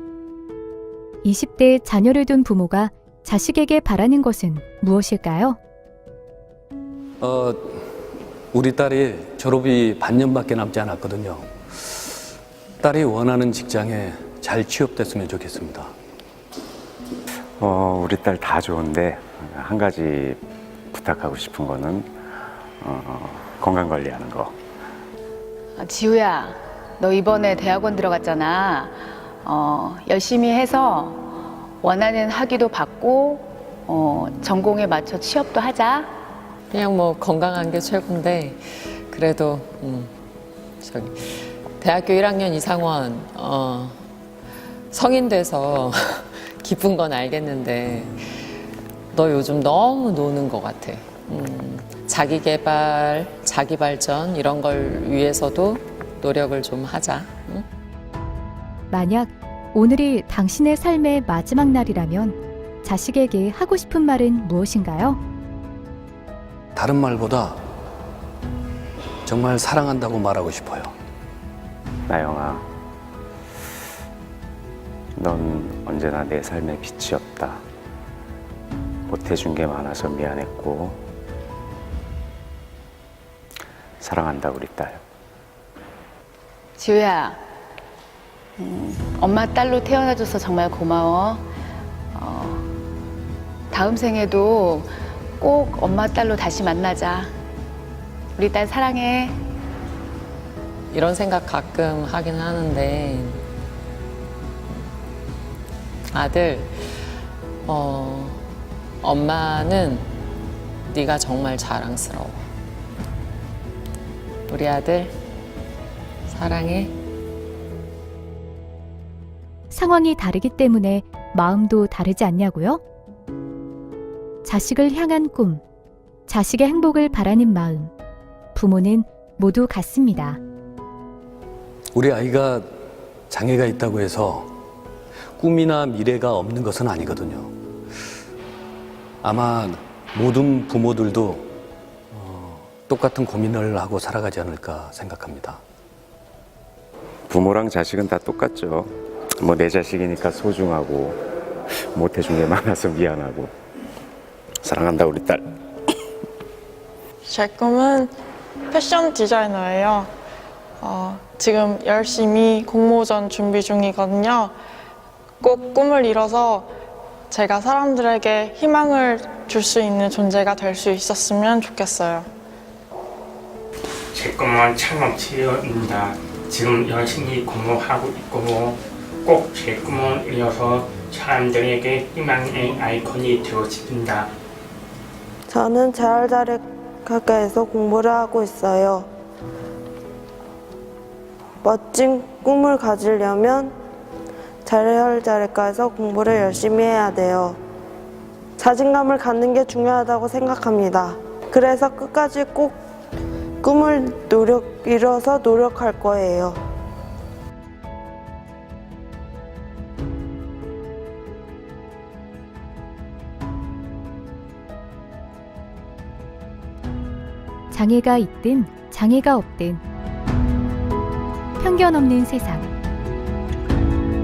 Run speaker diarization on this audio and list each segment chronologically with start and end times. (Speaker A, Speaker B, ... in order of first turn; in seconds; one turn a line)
Speaker A: 1.2-5.6
Speaker B: 7.2-7.8
Speaker B: 8.5-11.5
Speaker B: 12.8-15.9
Speaker C: 17.6-22.1
Speaker C: 22.8-24.6
Speaker D: 25.8-36.1
Speaker E: 36.7-40.1
Speaker E: 40.8-44.0
Speaker E: 44.9-48.5
Speaker E: 49.1-57.6
Speaker A: 58.9-65.2
Speaker B: 66.8-67.6
Speaker B: 69.3-70.9
Speaker C: 72.1-72.7
Speaker C: 75.2-77.6
Speaker C: 79.1-81.0
Speaker C: 84.0-85.0
Speaker D: 86.8-87.4
Speaker D: 88.6-91.5
Speaker D: 92.1-92.7
Speaker D: 93.7-97.3
Speaker D: 98.4-99.4
Speaker E: 100.9-103.4
Speaker E: 106.1-108.4
Speaker E: 109.0-110.1
Speaker E: 110.9-112.4
Speaker E: 114.5-115.1
Speaker E: 116.3-116.9
Speaker A: 119.7-122.8
Speaker A: 124.4-125.6
Speaker A: 126.3-127.9
Speaker A: 128.6-130.4
Speaker B: 131.9-132.7
Speaker B: 133.3-134.5
Speaker B: 135.4-137.5
Speaker B: 139.2-141.5
Speaker B: 142.1-145.6
Speaker C: 147.3-153.6
Speaker C: 154.6-155.5
Speaker F: 157.3-158.1
Speaker F: 158.7-160.1
Speaker F: 160.8-164.6
Speaker F: 165.4-166.7
Speaker F: 167.3-172.3
Speaker G: 174.1-184.3
Speaker H: 185.5-189.1
Speaker H: 191.6-193.7
Speaker H: 194.7-197.6
Speaker H: 198.6-202.8
Speaker H: 203.6-206.6
Speaker A: 217.7-219.8
Speaker A: 221.6-222.7